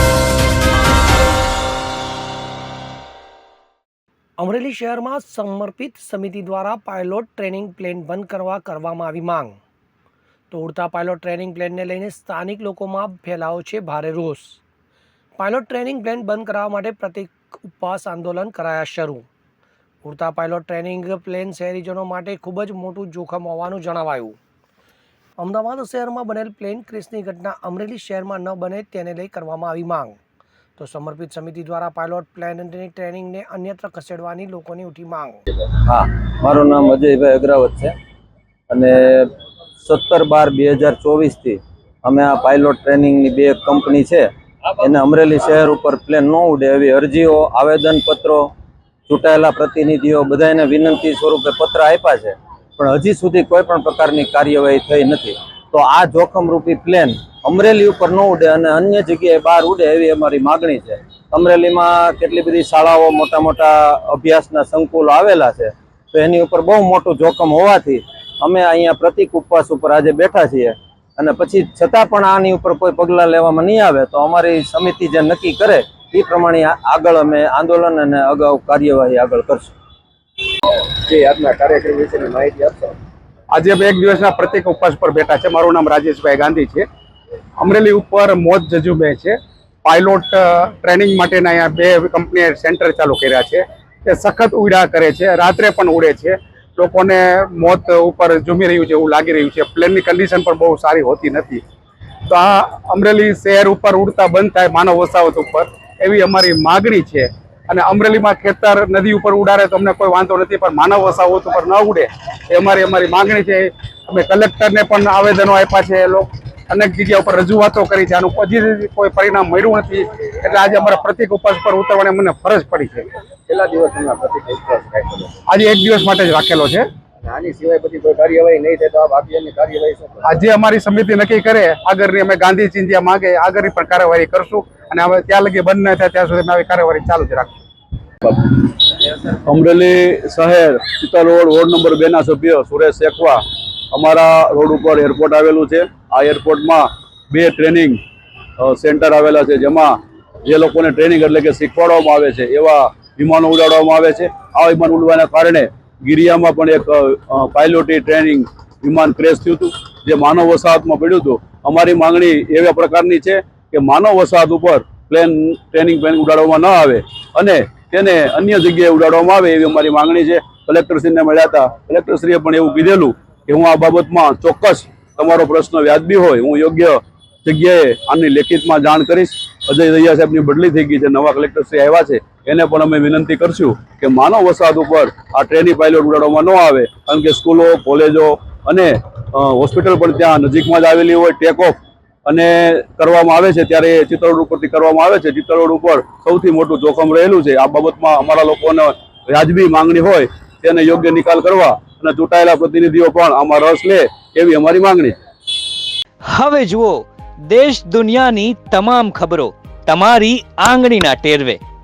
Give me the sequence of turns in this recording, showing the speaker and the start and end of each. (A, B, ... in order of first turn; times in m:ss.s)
0:04.4-0:09.6 A
0:10.5-0:14.6 A
0:15.4-0:19.2 A
0:20.0-0:24.4 A
0:25.4-0:30.2 A
0:30.8-0:35.4 A
0:35.8-0:37.9 B
0:38.7-0:48.5 B
0:49.1-1:19.7 B
1:21.0-1:22.9 C
1:23.5-1:26.8 D
1:27.6-1:41.6 D
1:42.3-2:03.1 D
2:03.5-2:05.3 C
2:05.5-2:06.8 D
2:07.2-2:10.2 C
2:10.2-2:17.5 D
2:18.2-2:28.0 E
2:28.6-3:25.2 E
3:26.3-3:31.6 F